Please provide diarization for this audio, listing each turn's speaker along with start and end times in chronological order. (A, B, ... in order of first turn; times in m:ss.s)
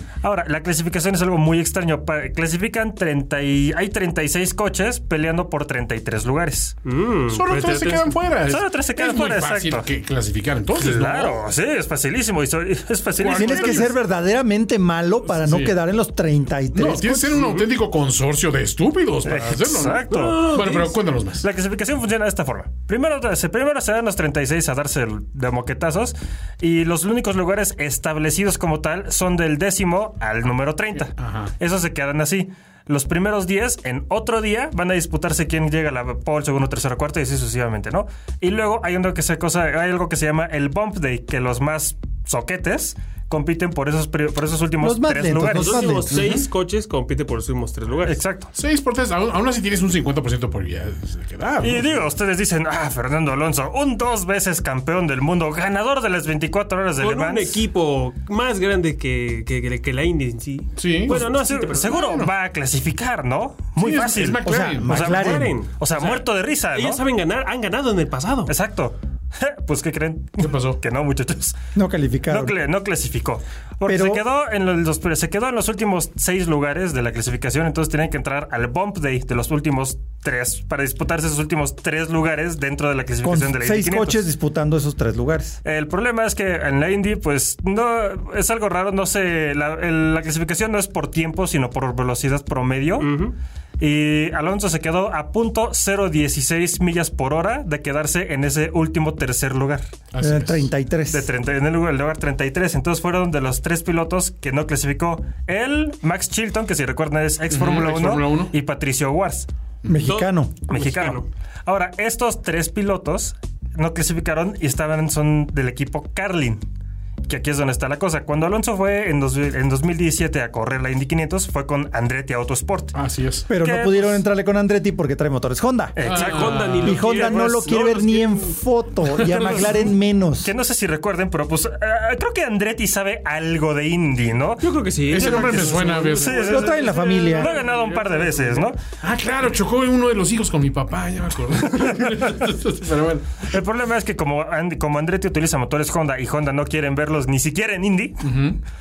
0:00.2-0:06.8 A
0:06.8-0:08.1 B
0:07.3-0:11.4 C
0:08.5-0:09.8 A
0:10.7-0:13.9 A
0:13.2-0:13.9 C
0:13.3-0:17.4 D
0:15.3-0:15.7 C
0:16.7-0:21.4 C
0:19.2-0:20.9 A
0:20.1-0:20.9 B
0:21.4-0:45.9 A
0:31.2-0:31.5 C
0:44.8-0:46.1 D
0:45.5-0:48.2 B
0:46.1-0:46.4 C
0:48.0-0:48.5 A
0:48.5-0:51.9 C
0:51.6-0:57.6 A
0:57.0-1:01.9 B
1:00.8-1:01.2 C
1:01.1-1:07.0 A
1:01.8-1:02.3 C
1:03.8-1:05.2 C
1:04.4-1:05.5 D
1:04.9-1:08.5 B
1:08.5-1:11.6 A
1:10.4-1:10.8 C
1:11.7-1:12.6 D
1:12.3-1:24.2 A
1:13.8-1:14.2 D
1:23.2-1:25.6 D
1:25.6-1:33.1 A
1:33.0-1:33.3 B
1:33.8-1:39.9 A
1:40.1-1:40.6 C
1:40.2-1:41.3 D
1:41.1-1:49.5 A
1:47.5-1:48.5 C
1:49.9-1:50.6 D
1:50.0-1:51.3 B
1:50.7-1:56.6 A
1:57.2-2:02.9 A
2:02.9-2:03.5 C
2:03.5-2:06.0 D
2:03.6-2:04.2 A
2:06.0-2:06.8 A
2:06.0-2:07.0 C
2:06.0-2:08.5 B
2:06.8-2:10.5 D
2:09.2-2:09.7 C
2:09.4-2:09.9 A
2:10.4-2:18.8 A
2:14.6-2:18.7 B
2:15.1-2:16.5 C
2:16.5-2:17.5 D
2:19.0-2:23.4 C
2:21.8-2:22.2 A
2:23.4-2:28.3 A
2:28.2-2:28.6 C